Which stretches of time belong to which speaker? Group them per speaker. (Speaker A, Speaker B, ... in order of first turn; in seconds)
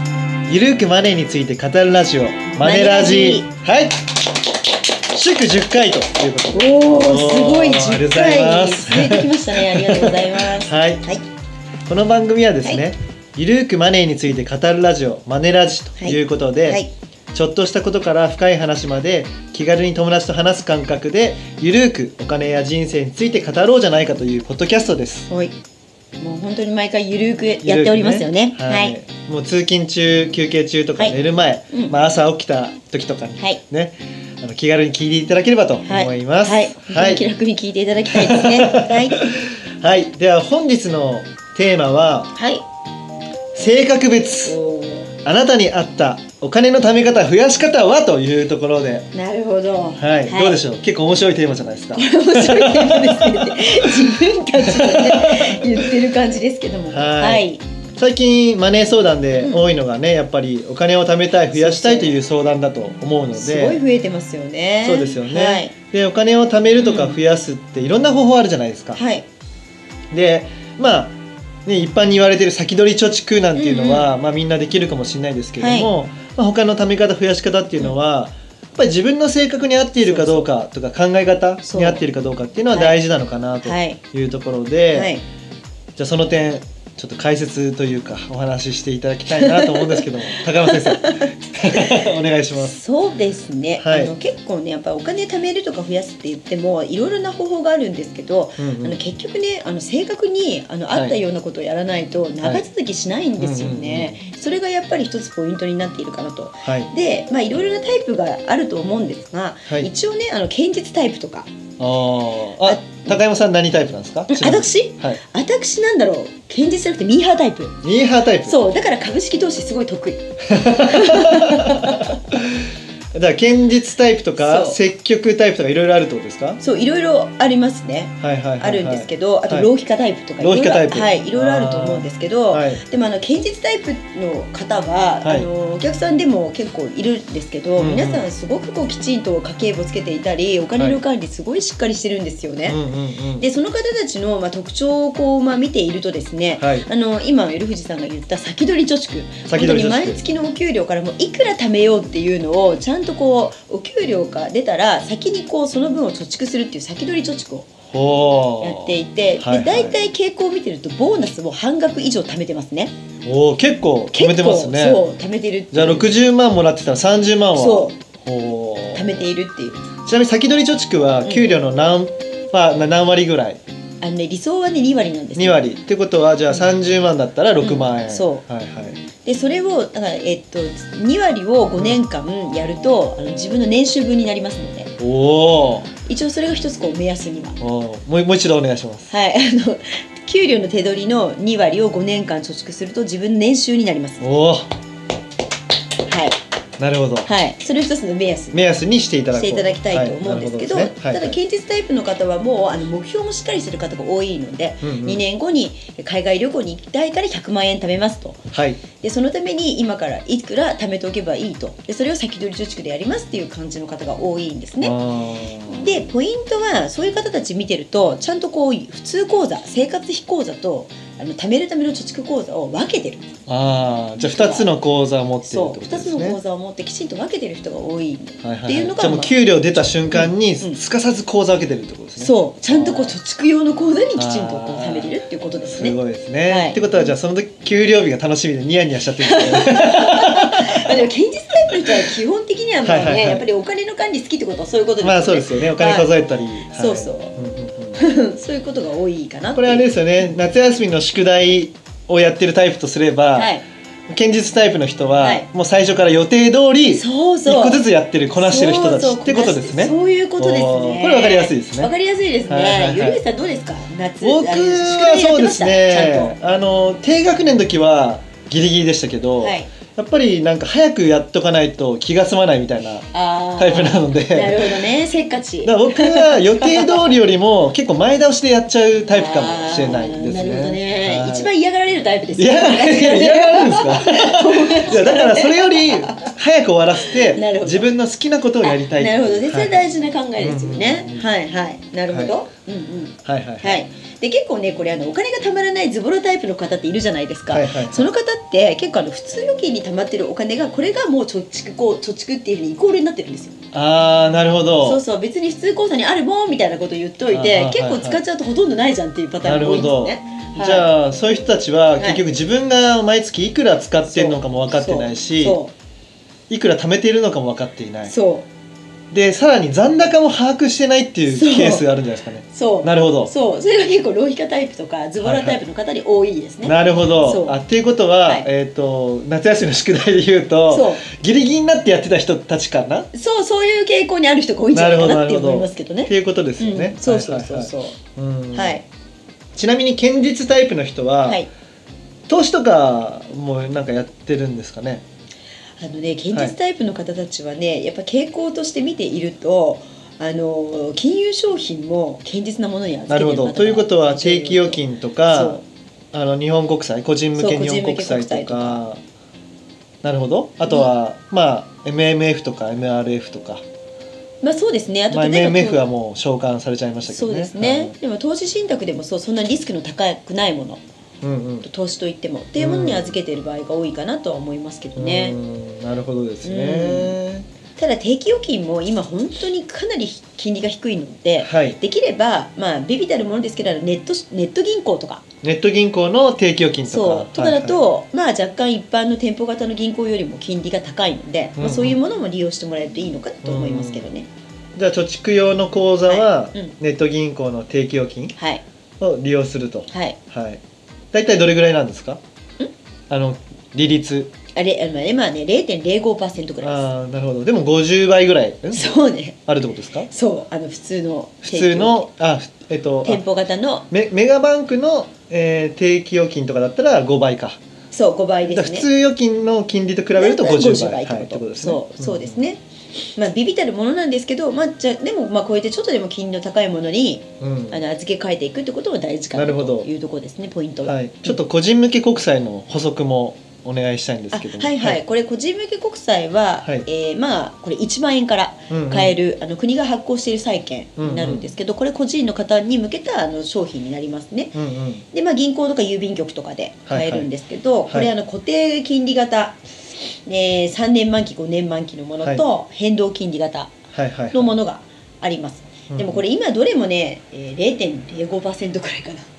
Speaker A: 0.5-4.1, 5.1-11.0, 11.9-25.3, 27.6-37.3, 38.1-42.3, 43.5-44.6, 45.2-49.1, 50.0-55.9, 56.9-57.5, 58.0-63.8, 64.8-69.0, 70.1-85.1, 86.0-92.8, 93.8-94.1, 98.6-99.0, 100.9-101.2, 103.4-104.2, 106.6-106.9, 111.8-115.2, 117.8-118.6, 120.5-122.0, 123.1-126.6, 128.2-129.7, 130.4-132.8, 137.8-138.2, 142.7-143.4, 146.6-146.9, 149.5-150.2, 157.9-160.0, 163.2-165.1, 165.7-169.3, 170.0-173.6, 175.3-179.0, 185.0-185.9, 187.6-189.1, 194.2-194.7, 196.8-197.3, 198.5-201.4, 204.8-205.2, 208.5-208.8, 214.8-216.0, 223.5-226.4, 228.4-233.1, 234.2-235.1, 235.7-241.1, 241.8-242.1, 242.8-243.4, 245.0-248.0, 249.5-253.5, 254.1-261.9, 262.5-263.2, 264.2-274.8, 275.6-281.5, 282.4-289.9, 290.4-291.3, 292.1-292.4, 293.2-293.8, 297.5-298.1, 303.7-305.0, 307.3-308.2, 309.4-315.6, 316.5-318.1, 319.1-323.3, 325.2-325.6, 326.6-333.1, 334.7-338.8, 339.5-341.4, 342.3-345.0, 353.1-355.6, 356.1-359.0, 360.0-363.6, 365.1-367.9, 371.2-371.7, 372.6-373.1, 374.9-377.5, 381.4-381.8, 385.4-387.8, 391.6-392.0, 393.4-394.1, 394.8-398.4, 399.0-400.6, 401.1-402.2, 403.1-404.3, 406.6-408.9, 409.5-410.1, 411.4-413.2, 413.9-417.6, 418.5-422.4, 427.4-427.8, 429.3-429.9, 430.8-435.0, 438.7-439.1, 441.0-441.5, 444.5-445.0, 446.9-447.3, 453.9-454.6, 455.9-456.2
Speaker B: 2.6-3.5, 6.5-11.2, 16.0-16.9, 25.3-25.5, 26.2-28.9, 31.7-32.0, 35.8-39.2, 42.3-42.6, 44.5-45.1, 49.1-50.6, 51.9-57.6, 59.4-59.6, 61.5-62.2, 63.4-65.7, 66.8-67.2, 68.9-69.2, 73.6-74.1, 75.6-75.9, 80.0-80.5, 81.6-82.0, 82.7-83.0, 83.6-84.0, 84.9-85.2, 89.3-91.9, 92.6-111.5, 112.6-113.2, 114.3-117.8, 118.4-122.2, 124.4-124.8, 126.6-142.8, 143.4-157.7, 158.6-162.9, 164.1-166.1, 167.6-167.9, 168.9-169.8, 171.2-171.5, 174.0-175.6, 177.6-178.4, 179.2-184.9, 186.1-187.6, 189.1-194.2, 196.1-196.4, 197.2-198.6, 199.3-208.4, 209.0-214.9, 215.7-223.3, 224.2-224.7, 225.4-229.4, 230.1-230.8, 232.2-236.8, 239.1-246.1, 246.7-247.3, 247.9-249.9, 253.3-253.6, 255.2-255.5, 256.9-257.8, 258.3-266.4, 269.4-269.7, 273.1-277.1, 279.1-286.3, 287.0-287.9, 288.6-303.5, 304.8-310.9, 314.1-315.7, 318.1-318.4, 321.3-321.9, 322.5-327.6, 330.7-331.1, 333.1-338.0, 338.5-338.8, 341.2-341.5, 345.8-355.6, 357.4-358.8, 364.4-365.8, 367.1-370.8, 371.6-375.4, 376.4-377.1, 377.8-385.2, 386.9-394.3, 396.1-396.7, 398.4-398.6, 399.9-400.2, 404.5-406.9, 408.7-409.4, 410.1-412.1, 413.0-413.9, 417.9-418.9, 420.2-422.6, 423.1-431.4, 434.3-444.5, 445.1-449.6, 450.2-453.8, 454.3-459.3